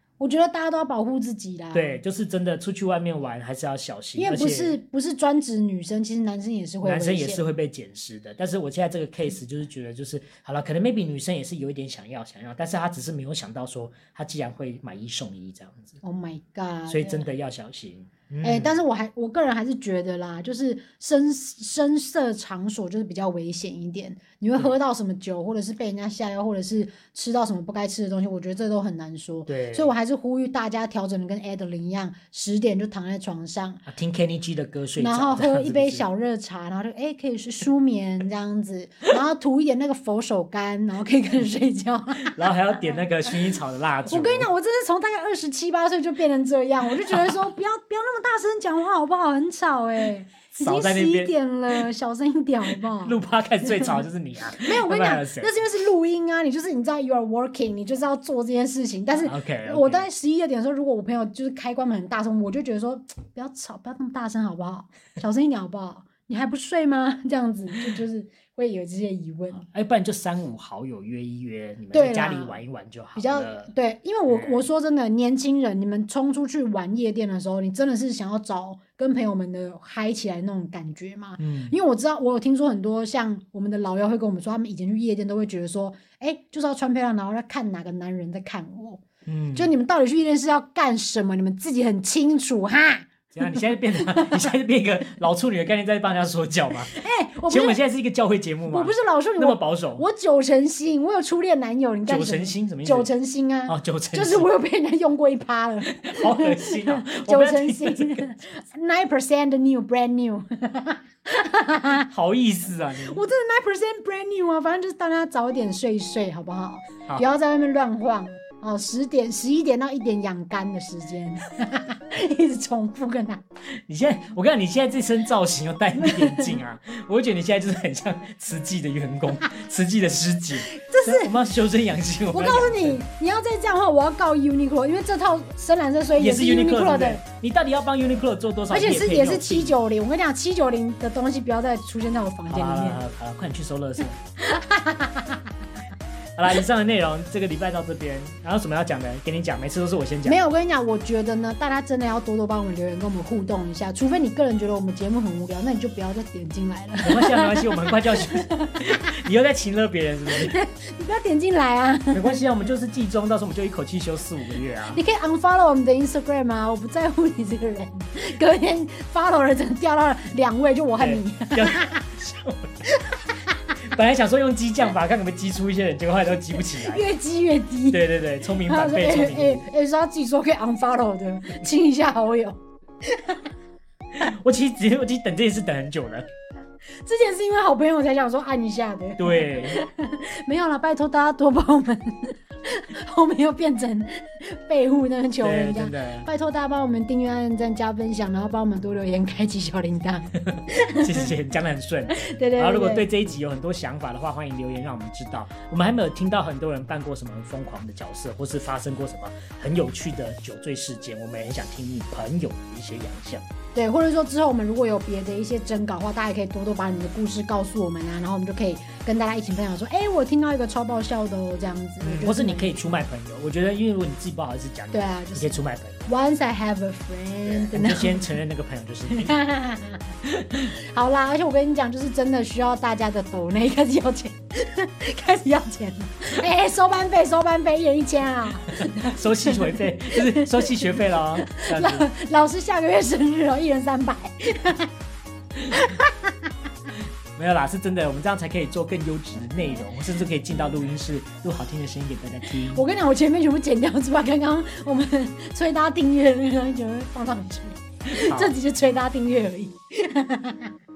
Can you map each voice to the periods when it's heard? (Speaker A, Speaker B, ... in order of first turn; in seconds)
Speaker A: 0.2-2.0, 4.2-7.4, 16.0-17.3, 18.4-33.8, 35.0-42.5, 44.1-54.0, 54.6-69.7, 71.9-72.6, 73.1-89.0, 89.5-94.5, 96.9-97.8, 98.7-112.0, 113.0-123.4, 126.0-126.5, 130.7-131.3, 132.3-137.2, 138.7-143.0, 144.4-145.5, 150.2-159.1, 160.3-162.3, 164.9-172.0, 172.9-173.7, 176.6-178.0, 178.6-183.4, 187.0-201.3, 202.1-203.1, 213.7-222.8, 224.9-228.3, 229.1-230.1, 230.8-244.9, 245.7-246.5, 252.7-260.7
Speaker B: 1.7-4.8, 6.8-16.0, 16.9-18.8, 29.5-29.9, 33.9-36.0, 42.3-44.5, 47.0-47.3, 50.6-51.8, 52.7-55.5, 59.2-60.1, 69.6-73.7, 74.3-74.6, 81.4-81.7, 89.2-89.7, 93.3-96.9, 97.5-100.0, 102.1-103.1, 103.7-104.5, 106.0-108.2, 112.0-113.2, 123.9-133.0, 136.2-139.7, 142.5-144.2, 146.4-150.4, 157.0-160.6, 162.1-165.0, 171.0-172.8, 173.8-177.1, 177.9-179.6, 184.1-186.2, 189.2-189.8, 195.4-196.3, 200.3-213.4, 222.0-226.1, 227.4-229.3, 230.2-230.7, 238.7-242.1, 246.9-252.8, 258.1-258.5